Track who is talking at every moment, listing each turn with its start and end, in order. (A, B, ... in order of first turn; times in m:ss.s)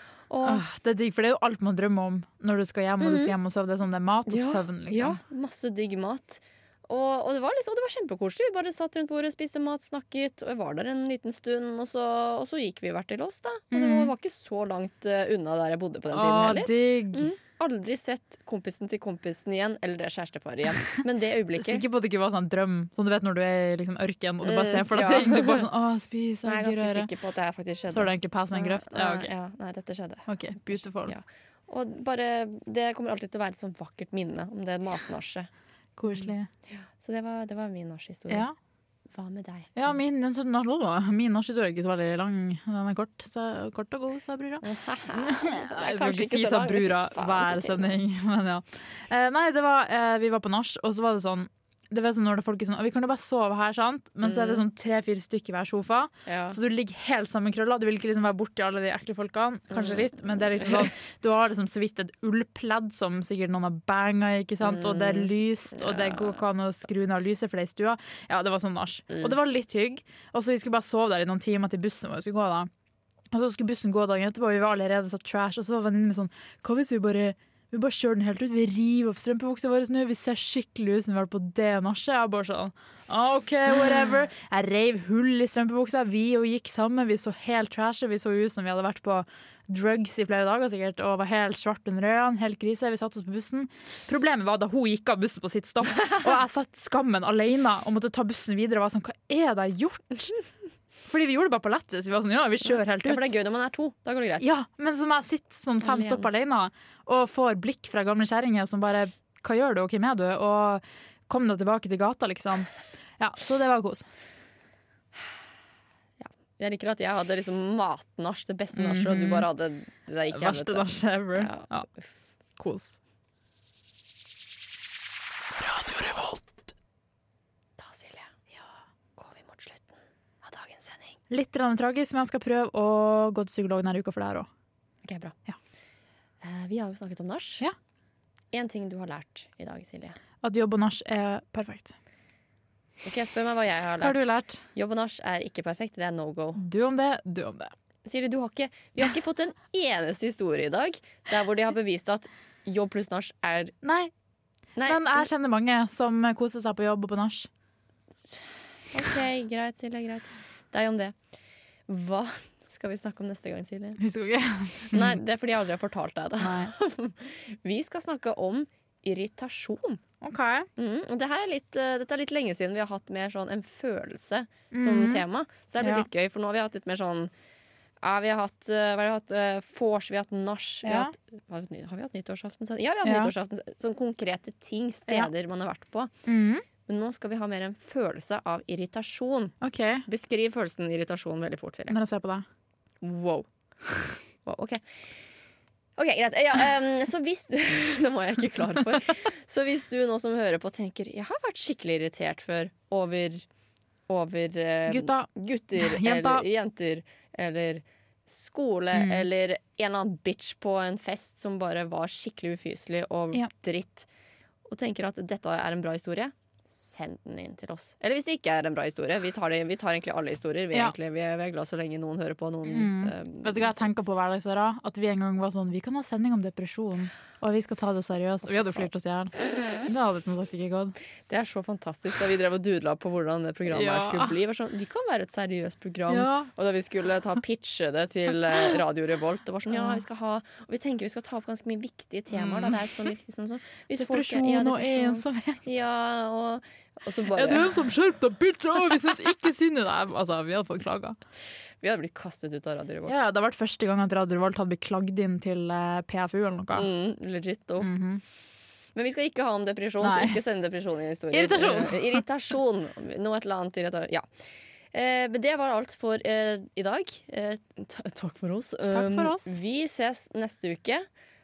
0:00.3-0:00.7 A
0:00.4-0:05.2 B
0:03.0-0:03.3 A
0:04.3-0:21.8 A
0:13.7-0:14.1 B
0:16.1-0:17.3 B
0:21.5-0:27.1 B
0:24.4-0:25.7 A
0:26.4-0:35.5 A
0:27.9-0:29.3 B
0:30.3-0:31.2 B
0:36.0-0:36.5 B
0:36.1-0:38.5 A
0:38.3-0:38.6 B
0:39.1-0:40.0 A
0:39.8-1:12.7 B
0:44.6-0:48.0 A
0:54.2-0:54.6 A
0:56.3-0:56.6 A
0:59.7-1:00.9 A
1:04.6-1:06.4 A
1:09.1-1:09.4 A
1:13.3-1:40.4 B
1:41.0-1:43.4 B
1:42.6-1:44.5 A
1:44.4-1:54.1 B
1:45.8-1:46.3 A
1:56.2-2:02.1 A
1:58.8-1:59.5 B
2:00.3-2:01.9 B
2:02.6-2:03.0 B
2:07.8-2:08.3 A
2:09.2-2:11.2 A
2:11.3-2:14.5 B
2:15.0-2:15.4 A
2:16.4-2:17.6 A
2:18.5-2:20.2 A
2:20.4-2:22.0 B
2:23.0-2:26.6 A
2:24.0-2:24.6 B
2:26.6-2:27.7 B
2:28.0-2:33.7 A
2:33.8-2:34.1 B
2:34.8-2:35.3 A
2:34.8-2:37.5 B
2:38.9-2:41.2 A
2:41.9-2:44.0 A
2:44.0-2:45.2 B
2:44.9-2:50.0 A
2:46.4-2:46.7 B
2:50.2-2:50.7 B
2:50.8-2:57.3 A
2:54.7-2:55.3 B
2:55.8-2:56.1 B
2:58.0-3:06.1 A
3:00.8-3:01.1 B
3:03.0-3:03.3 B
3:06.3-3:06.6 B
3:06.9-3:12.0 A
3:09.6-3:10.1 B
3:11.9-3:12.4 B
3:13.0-3:13.5 A
3:14.4-3:14.8 A
3:16.0-3:23.5 A
3:24.1-3:34.1 A
3:24.9-3:26.5 B
3:28.9-3:29.3 B
3:34.7-3:43.9 A
3:42.7-3:51.0 B
3:48.6-3:48.9 A
3:51.3-4:07.7 A
3:53.7-3:54.4 B
3:56.1-3:56.5 B
3:59.7-4:00.0 B
4:02.3-4:03.1 B
4:03.9-4:05.6 B
4:07.3-4:11.2 B
4:11.8-4:13.2 A
4:13.1-4:16.9 B
4:16.7-4:17.9 A
4:17.8-4:18.2 B
4:19.0-4:24.3 A
4:20.0-4:20.4 B
4:21.3-4:22.2 B
4:24.9-4:31.1 A
4:28.9-4:29.6 B